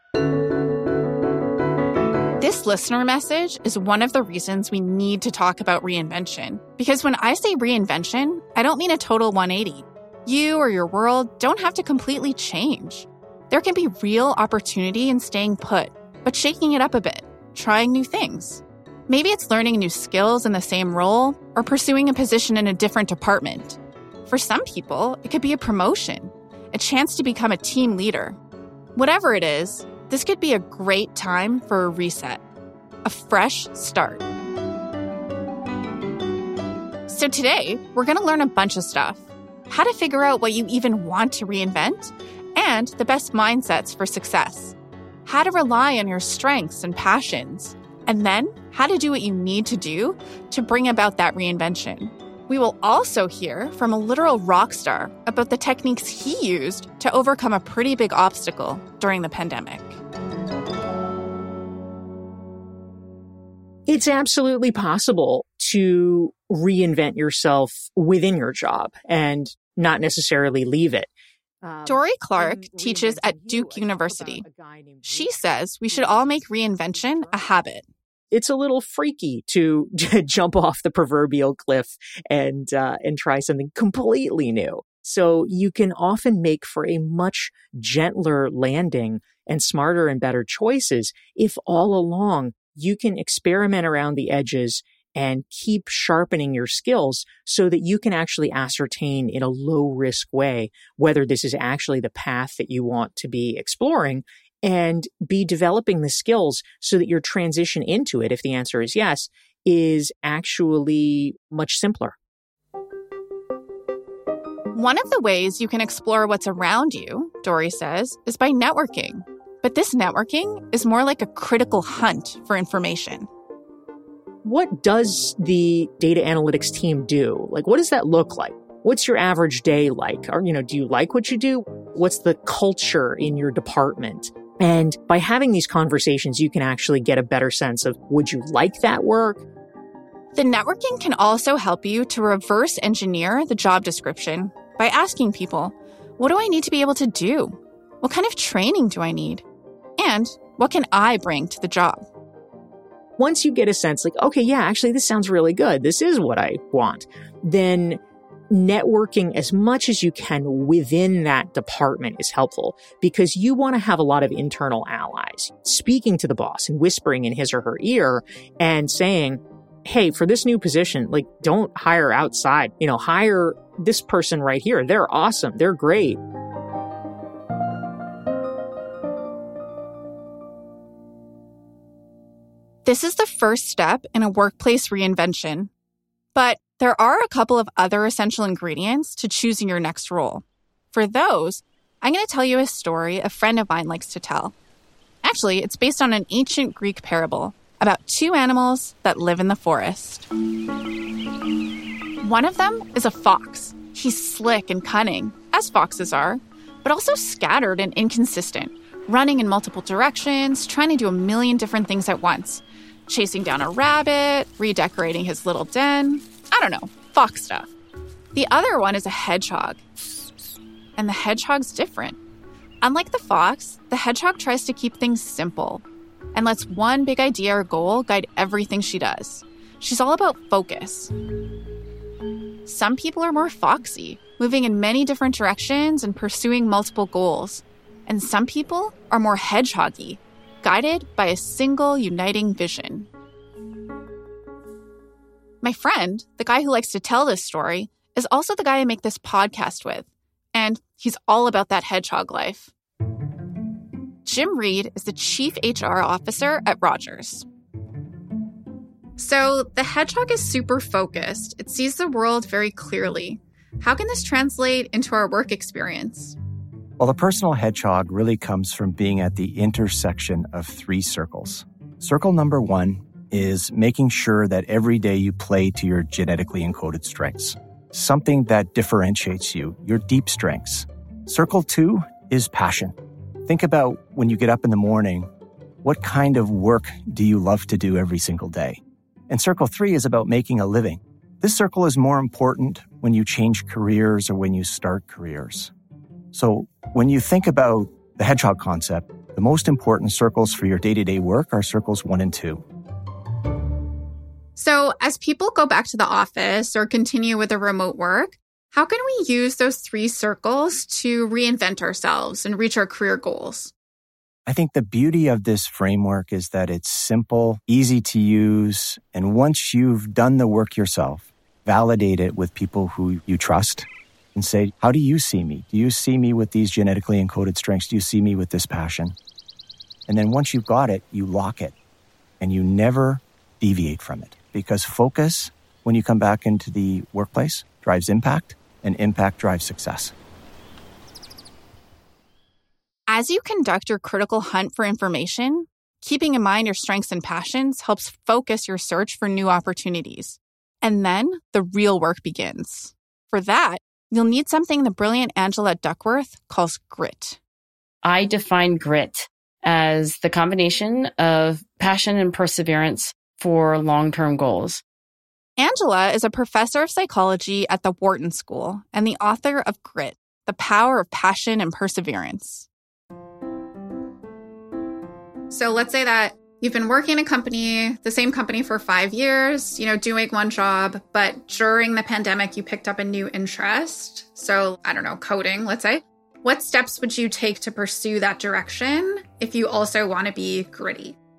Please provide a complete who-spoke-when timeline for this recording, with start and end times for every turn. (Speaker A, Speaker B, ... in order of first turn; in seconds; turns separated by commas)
Speaker A: 2.4-28.4, Speaker A: 28.9-32.4, Speaker A: 33.0-34.2, Speaker A: 37.1-60.0, Speaker B: 63.9-71.1, Speaker B: 71.6-77.5, Speaker A: 71.9-74.5, Speaker A: 75.1-77.9, Speaker B: 78.3-112.2, Speaker A: 114.7-123.3, Speaker B: 124.4-139.5, Speaker A: 140.3-149.4, Speaker A: 150.0-152.1, Speaker B: 153.2-176.2, Speaker A: 182.8-185.7, Speaker A: 186.3-194.5, Speaker A: 195.2-200.3, Speaker A: 202.2-217.7, Speaker A: 218.3-219.8, Speaker A: 221.0-222.2, Speaker A: 222.8-231.1, Speaker A: 232.7-243.1, Speaker A: 245.6-252.7, Speaker A: 254.2-257.5, Speaker A: 259.2-266.4, Speaker C: 267.0-282.9, Speaker C: 283.5-285.3, Speaker C: 285.8-295.7, Speaker C: 296.3-302.6, Speaker A: 304.6-313.7, Speaker C: 314.5-329.2, Speaker C: 330.1-331.8, Speaker C: 332.4-340.1, Speaker A: 343.1-357.4, Speaker D: 358.0-364.8, Speaker A: 365.6-372.7, Speaker A: 375.5-391.2